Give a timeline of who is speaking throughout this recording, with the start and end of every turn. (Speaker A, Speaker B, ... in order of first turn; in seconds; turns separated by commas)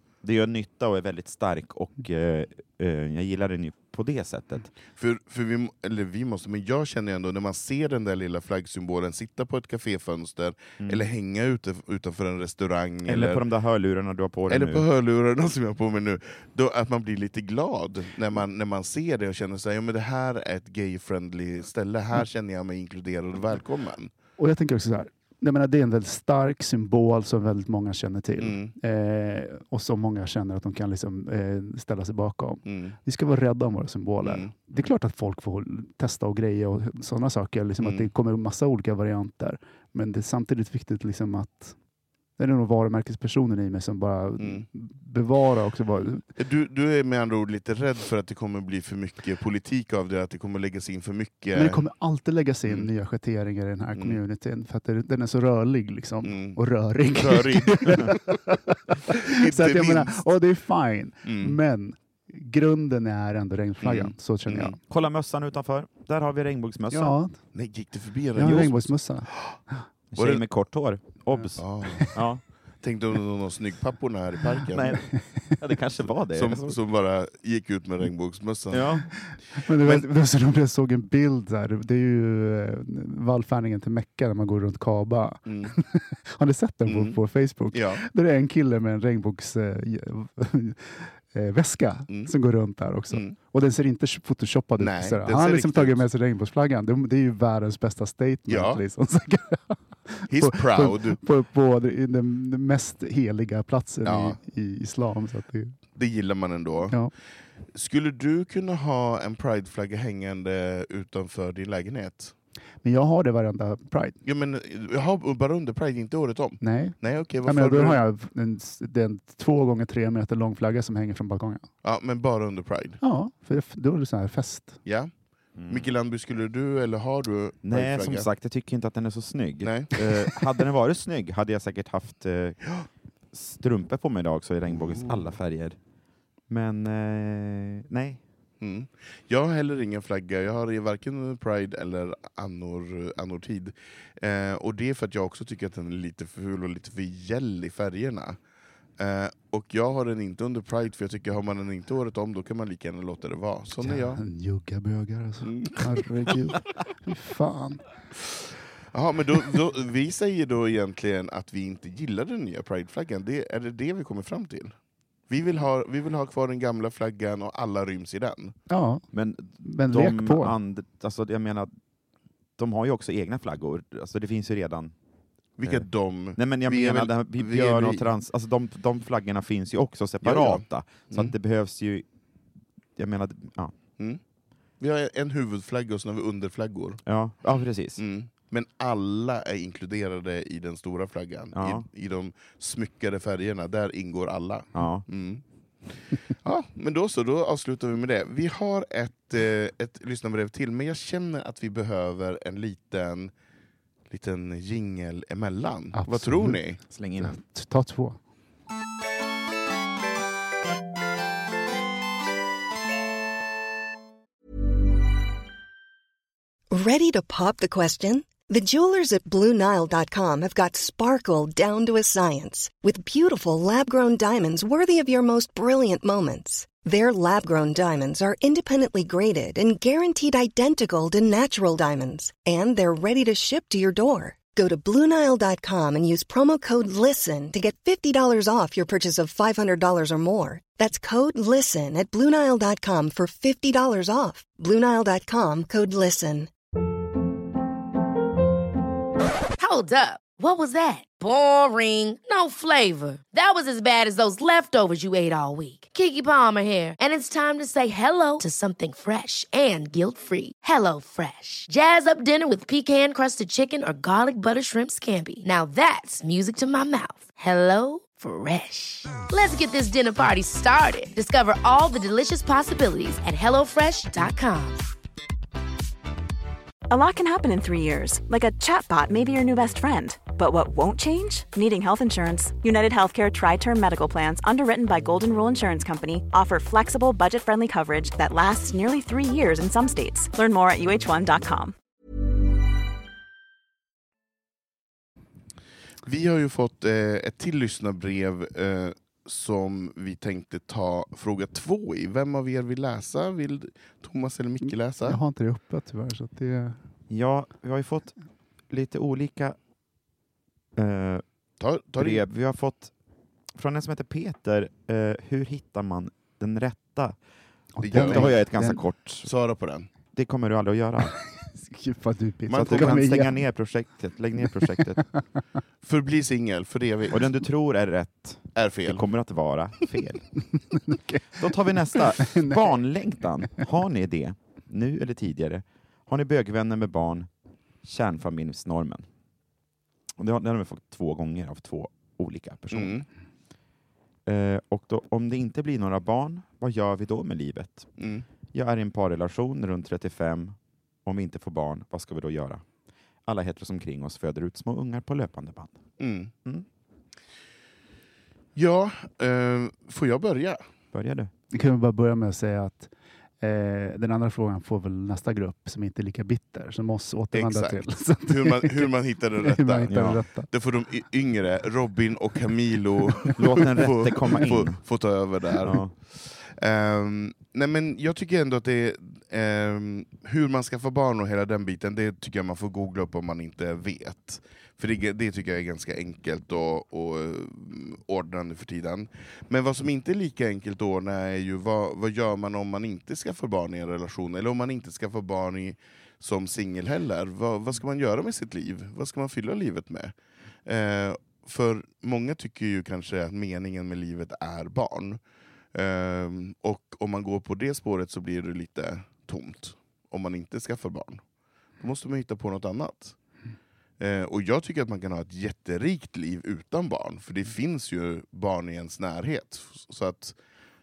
Speaker A: 0.2-4.7, Speaker B: 5.0-13.4, Speaker A: 10.8-11.0, Speaker A: 13.1-14.8, Speaker B: 14.5-24.1, Speaker C: 24.4-41.8, Speaker B: 28.4-28.7, Speaker B: 32.6-33.0, Speaker B: 34.2-34.5, Speaker B: 37.8-38.1, Speaker C: 42.4-46.2, Speaker B: 44.4-44.6, Speaker B: 46.4-51.8, Speaker C: 51.5-64.8, Speaker B: 56.2-58.4, Speaker B: 59.1-60.2, Speaker B: 61.2-61.6, Speaker B: 63.8-64.8, Speaker A: 64.9-67.2, Speaker C: 66.9-67.3, Speaker B: 67.5-69.5, Speaker C: 68.3-69.8, Speaker A: 68.4-68.7, Speaker A: 70.1-72.4, Speaker B: 70.2-70.4, Speaker B: 71.6-72.2, Speaker B: 72.8-75.0, Speaker A: 74.7-76.8, Speaker B: 76.3-78.9, Speaker A: 78.7-79.1, Speaker C: 79.2-105.8, Speaker B: 79.7-80.0, Speaker B: 85.5-85.7, Speaker B: 86.8-87.2, Speaker B: 87.7-88.0, Speaker B: 94.8-96.0, Speaker B: 98.5-98.8, Speaker B: 100.3-101.2, Speaker B: 104.0-104.4, Speaker B: 105.9-107.0, Speaker B: 107.7-112.3, Speaker C: 112.8-114.2, Speaker B: 114.2-118.0, Speaker C: 116.6-121.7, Speaker B: 121.8-123.0, Speaker C: 123.0-124.8, Speaker B: 124.8-125.1, Speaker A: 125.6-125.9, Speaker B: 125.7-128.3, Speaker A: 127.6-132.7, Speaker B: 129.6-129.9, Speaker A: 133.3-135.8, Speaker B: 134.7-135.3, Speaker A: 136.5-138.2, Speaker B: 138.6-148.4, Speaker B: 149.0-154.2, Speaker C: 153.8-157.8, Speaker B: 155.4-156.3, Speaker B: 158.9-164.7, Speaker B: 165.3-168.6, Speaker C: 168.7-169.0, Speaker A: 169.1-171.7, Speaker C: 169.6-170.6, Speaker A: 172.6-174.9, Speaker B: 175.6-178.1, Speaker A: 176.3-182.0, Speaker B: 180.2-181.3, Speaker A: 183.0-183.7, Speaker B: 184.8-187.0, Speaker A: 187.1-188.0, Speaker B: 188.0-195.4, Speaker A: 191.5-191.8, Speaker A: 194.7-195.0, Speaker B: 196.4-203.3, Speaker B: 204.1-206.8, Speaker C: 205.9-206.6, Speaker A: 206.9-207.3, Speaker C: 207.2-208.2, Speaker D: 216.7-246.5, Speaker E: 249.6-274.9, Speaker F: 276.9-291.7, Speaker B: 296.0-305.2, Speaker C: 304.6-306.8, Speaker A: 307.1-308.1, Speaker A: 308.7-309.6, Speaker A: 310.8-311.2, Speaker B: 311.6-312.2, Speaker A: 312.0-312.9, Speaker A: 313.6-317.1, Speaker C: 317.7-318.8, Speaker B: 317.8-318.4, Speaker A: 317.9-319.3, Speaker B: 319.2-319.9, Speaker A: 320.1-321.2, Speaker C: 321.4-323.4, Speaker B: 322.5-323.0, Speaker A: 322.5-325.0, Speaker C: 324.5-325.2, Speaker B: 325.8-327.3, Speaker A: 327.1-330.3, Speaker B: 328.6-329.0, Speaker C: 330.8-332.8, Speaker A: 331.4-337.3, Speaker A: 337.8-339.0, Speaker A: 340.2-343.1, Speaker B: 342.7-343.1, Speaker A: 344.2-347.9, Speaker B: 348.0-348.2, Speaker A: 348.5-352.6, Speaker A: 353.2-355.8, Speaker B: 356.0-356.3, Speaker B: 358.5-360.6, Speaker A: 360.9-361.3, Speaker C: 361.5-370.5, Speaker B: 367.3-400.1, Speaker A: 369.9-370.2, Speaker A: 373.4-374.8, Speaker A: 375.6-375.9, Speaker B: 400.6-405.2, Speaker B: 405.7-411.2, Speaker B: 411.8-413.1, Speaker B: 414.0-420.4